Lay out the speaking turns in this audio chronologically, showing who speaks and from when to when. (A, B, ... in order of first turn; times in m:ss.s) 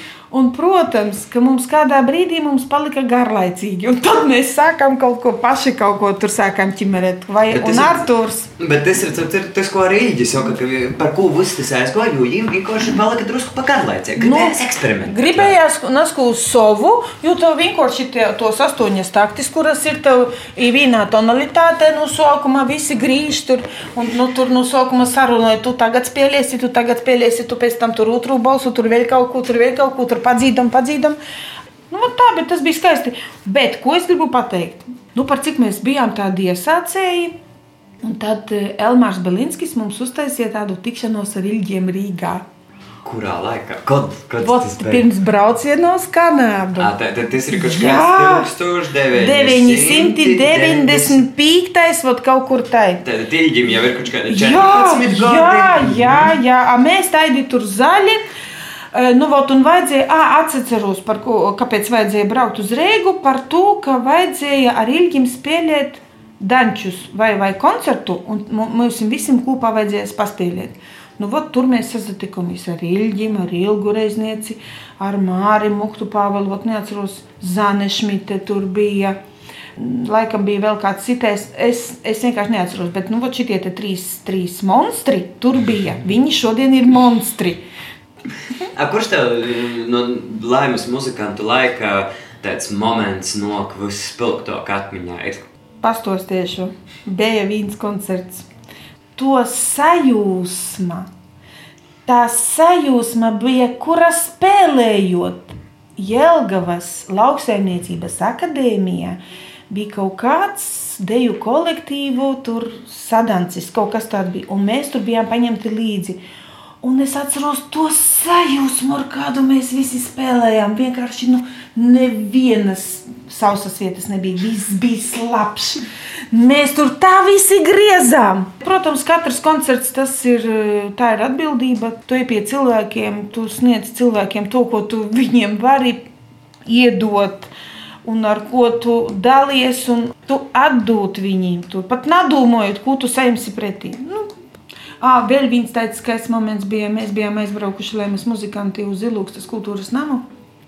0:00.3-0:08.5 A
0:07.5-0:08.1 B
0:08.6-0:15.6 B
0:14.2-0:31.2 A
0:31.9-0:37.3 A
0:38.0-0:42.4 A
0:43.0-0:45.1 B
0:44.4-0:46.9 A
0:46.8-0:51.2 B
0:47.5-0:48.5 A
0:49.1-0:53.0 A
0:53.0-0:56.3 B
0:54.3-0:58.2 A
0:58.9-1:19.2 A
1:19.8-1:27.6 A
1:28.7-1:35.5 B
1:35.8-1:38.5 A
1:39.2-1:41.1 A
1:42.0-1:56.2 A
1:56.8-2:16.0 A
2:16.6-2:17.5 A
2:18.0-2:24.3 A
2:25.0-2:30.2 A